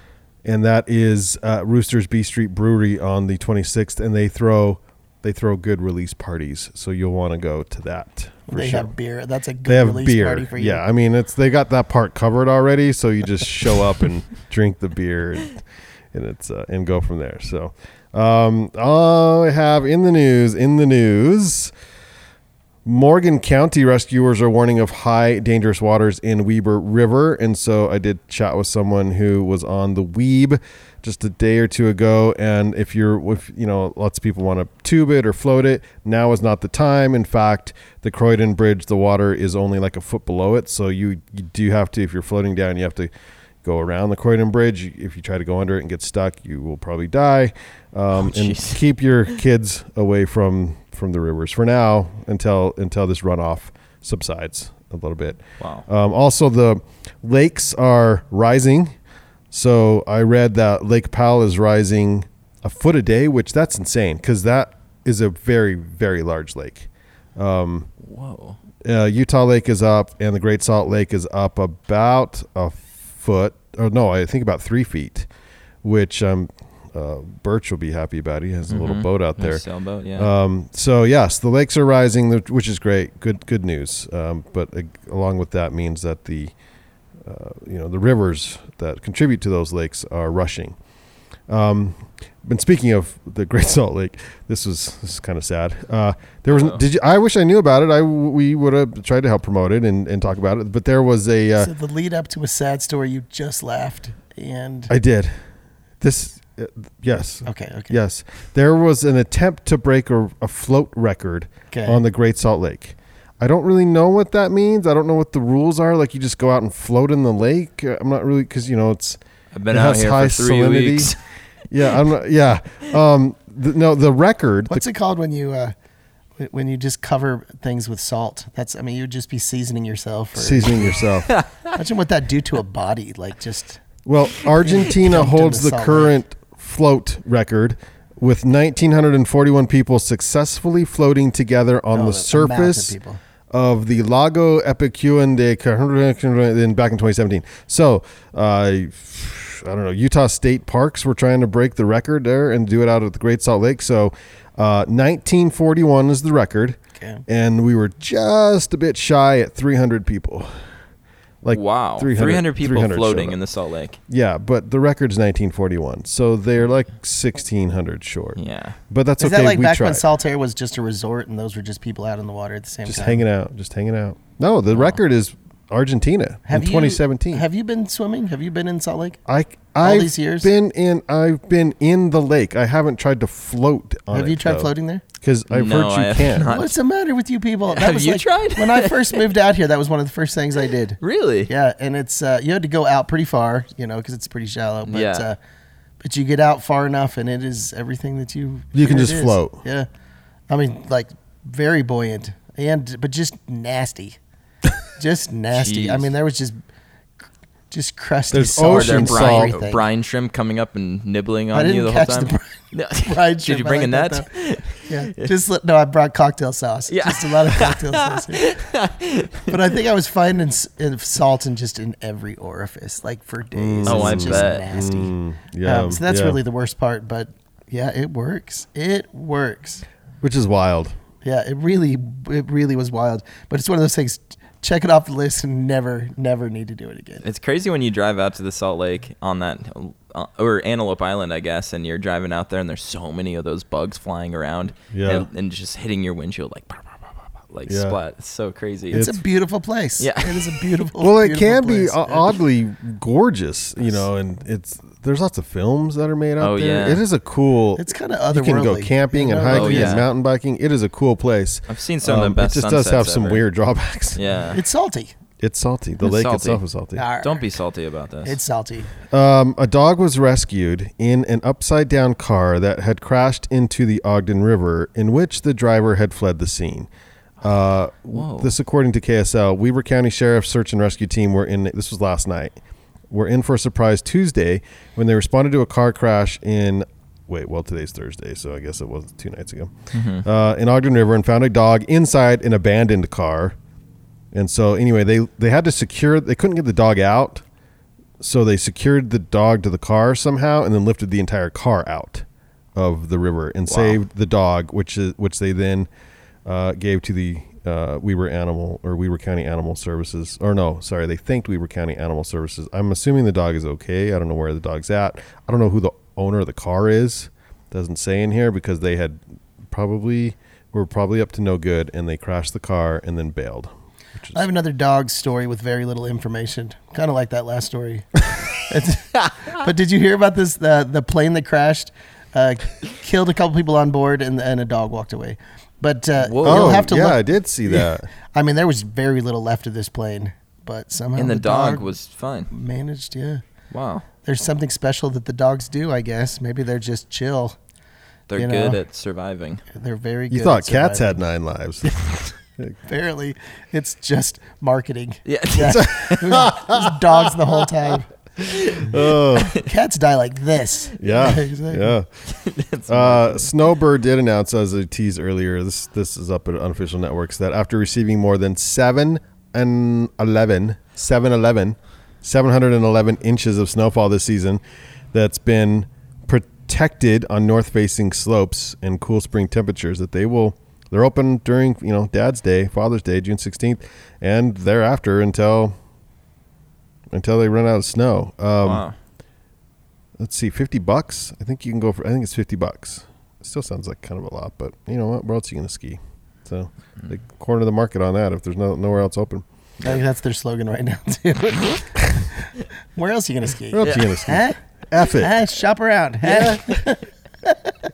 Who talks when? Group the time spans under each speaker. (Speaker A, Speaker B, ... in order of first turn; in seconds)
Speaker A: 0.4-8.9, 9.6-21.7, 22.8-43.1, 43.6-58.9, 59.5-67.9, 68.8-75.3, 75.8-79.6, 80.2-86.5, 87.2-90.8, 91.5-101.7, 104.9-105.3, 106.0-119.2, 119.7-121.1, 121.7-124.9, 130.3-131.3, 134.1-142.9, 143.5-160.5, 161.4-163.4, 164.1-170.0, 172.8-177.4, 179.3-186.5, 198.7-199.6, 208.3-209.5, 223.5-226.4, 230.2-230.9, 244.9-245.3, 247.7-248.0, 248.9-249.2, 251.0-264.2, 265.4-267.0, 269.1-276.9, 277.4-282.6, 283.1-293.6, 294.3-297.4, 298.2-305.9, 306.4-324.5, 336.4-338.1, 350.3-351.9, 355.6-357.0, 358.8-359.5, 361.0-362.1, 362.9-374.6, 375.1-385.8, 387.1-388.8, 390.2-399.4, 403.7-405.3, 406.2-406.7
Speaker B: 8.5-10.8, 101.6-104.9, 107.4-108.0, 111.7-112.0, 124.7-125.7, 126.4-131.1, 131.7-133.8, 134.4-136.1, 141.9-143.2, 157.0-157.2, 169.2-173.2, 176.5-179.2, 179.8-180.5, 184.1-185.0, 186.5-195.4, 196.0-199.9, 200.5-204.2, 205.0-206.6, 207.7-209.8, 211.5-218.5, 219.5-229.8, 231.2-237.2, 248.9-252.3, 257.8-260.0, 264.5-265.1, 266.9-267.5, 268.2-268.9, 324.3-341.9, 342.5-343.4, 344.2-347.6, 348.4-348.8, 349.7-351.2, 352.9-358.1, 359.5-362.0, 399.8-404.6, 405.1-407.5
Speaker C: 48.1-48.8, 55.6-55.8, 68.0-68.6, 78.7-80.3, 96.5-96.8, 119.5-121.2, 131.3-131.8, 161.5-164.0, 168.3-168.8, 185.5-186.7, 187.7-189.3, 191.0-191.5, 194.8-195.3, 205.5-206.1, 208.6-215.3, 216.9-219.7, 223.8-224.6, 237.2-249.1, 250.0-250.7, 256.4-257.0, 259.5-260.1, 261.7-263.4, 264.1-264.6, 266.0-266.6, 267.2-268.4, 278.1-278.5, 289.9-290.2, 303.7-304.0, 336.2-336.8, 341.1-342.5, 343.7-344.1, 348.3-349.6, 355.2-356.2, 358.4-358.9, 362.3-363.5, 388.6-388.9